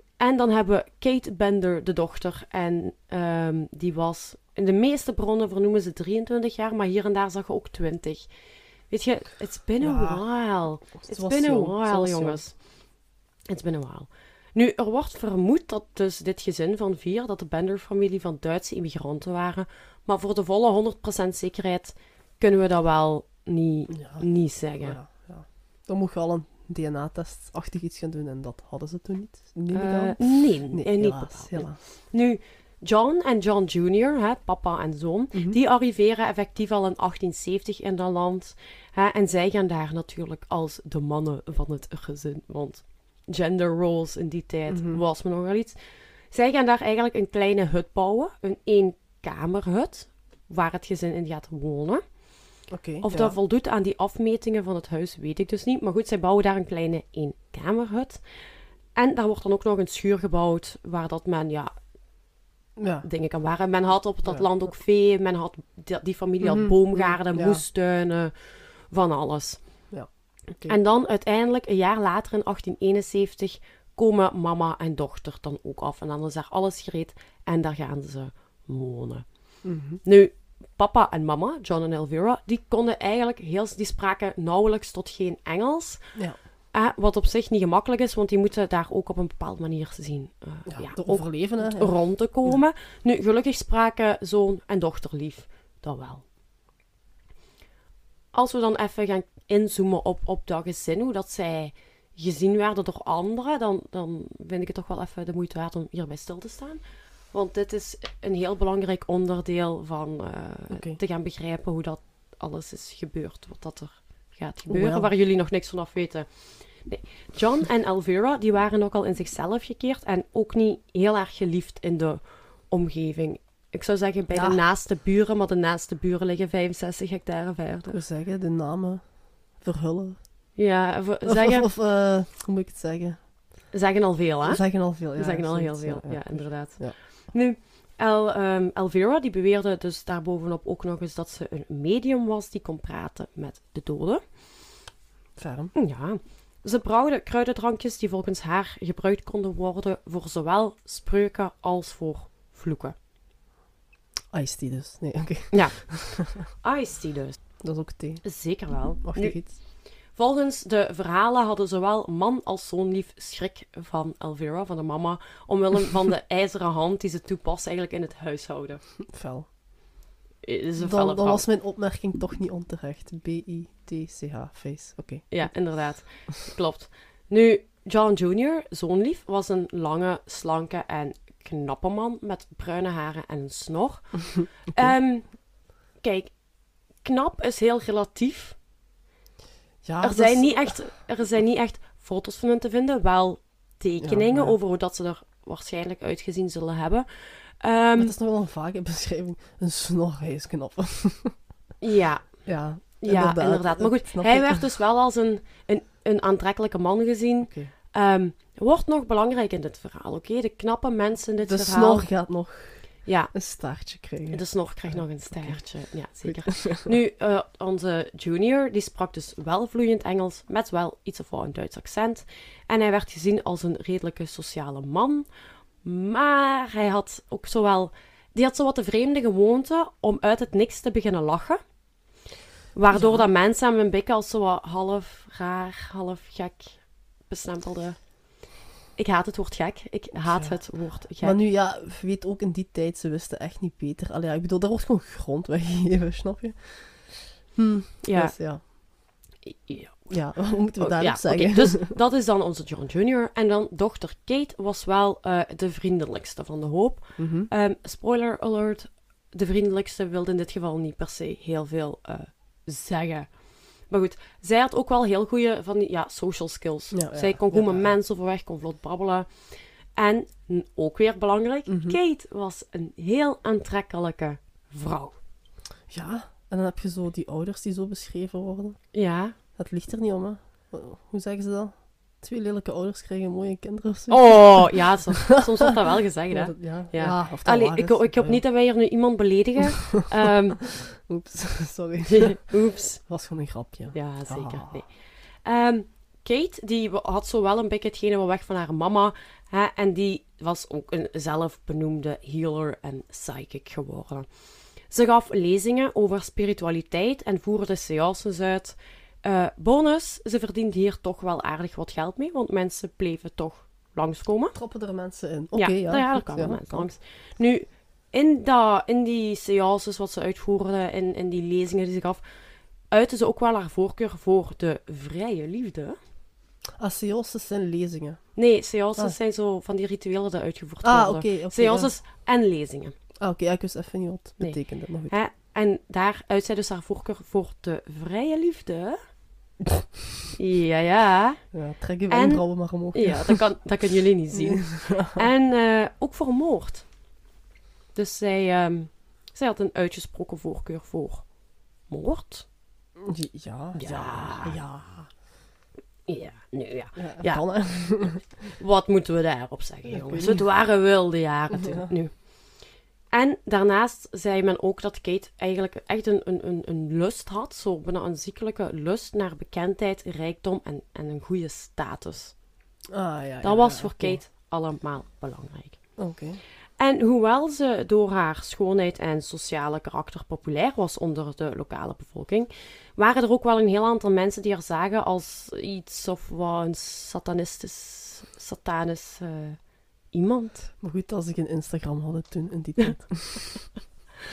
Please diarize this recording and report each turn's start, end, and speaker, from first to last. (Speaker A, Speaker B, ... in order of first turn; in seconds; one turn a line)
Speaker A: 0.2-25.0
Speaker B: 9.8-12.5
Speaker B: 23.9-31.8
Speaker A: 29.7-61.9
Speaker B: 35.3-35.6
Speaker B: 44.7-45.0
Speaker B: 52.7-53.4
Speaker B: 62.8-63.1
Speaker A: 63.0-96.3
Speaker B: 64.2-64.7
Speaker B: 66.4-67.6
Speaker B: 69.9-70.8
Speaker B: 79.6-80.0
Speaker B: 86.2-86.4
Speaker B: 90.7-92.6
Speaker A: 98.3-128.0
Speaker B: 110.7-111.0
Speaker B: 114.7-115.1
Speaker B: 124.3-124.7
Speaker B: 127.9-130.6
Speaker A: 130.6-131.7
Speaker B: 131.3-133.7
Speaker A: 133.7-144.8
Speaker B: 134.4-137.3
Speaker B: 145.4-145.8
Speaker A: 145.8-152.9
Speaker B: 154.3-156.4
Speaker A: 155.5-168.9
Speaker B: 157.6-159.6
Speaker B: 169.1-169.5
Speaker A: 170.4-171.5
Speaker B: 170.8-176.3
Speaker A: 175.3-188.6
Speaker B: 189.8-190.9
Speaker A: 190.0-198.2
Speaker B: 194.0-194.6
Speaker B: 198.0-201.5
Speaker A: 201.8-212.3
Speaker B: 202.4-204.8
Speaker B: 207.5-207.7
Speaker B: 211.4-216.9
Speaker A: 213.1-225.3
Speaker A: 225.8-231.8
Speaker A: 232.7-241.4
Speaker B: 232.9-233.3
Speaker B: 240.2-248.7
Speaker A: 248.0-275.2
Speaker B: 250.1-252.0
Speaker B: 257.2-257.5
Speaker B: 266.9-268.0
Speaker B: 271.7-272.0
Speaker B: 275.9-285.0
Speaker A: 278.9-279.4
Speaker A: 284.1-290.7
Speaker B: 286.3-288.5
Speaker B: 290.7-294.9
Speaker A: 292.1-293.4
Speaker A: 293.9-314.6
Speaker B: 314.5-316.9
Speaker A: 315.5-326.0
Speaker B: 326.8-329.2
Speaker A: 328.4-333.0
Speaker B: 330.8-331.9
Speaker B: 333.2-335.2
Speaker A: 334.4-339.0
Speaker A: 340.4-347.1
Speaker B: 341.5-343.6
Speaker B: 344.3-345.2
Speaker A: 347.9-352.5
Speaker B: 353.0-355.2
Speaker A: 353.8-354.6
Speaker A: 356.1-372.4
Speaker B: 357.0-358.3
Speaker B: 359.9-360.6
Speaker B: 361.5-361.9
Speaker B: 372.9-374.2
Speaker A: 373.4-376.1
Speaker B: 376.0-376.4
Speaker A: 376.8-390.7
Speaker B: 390.8-393.8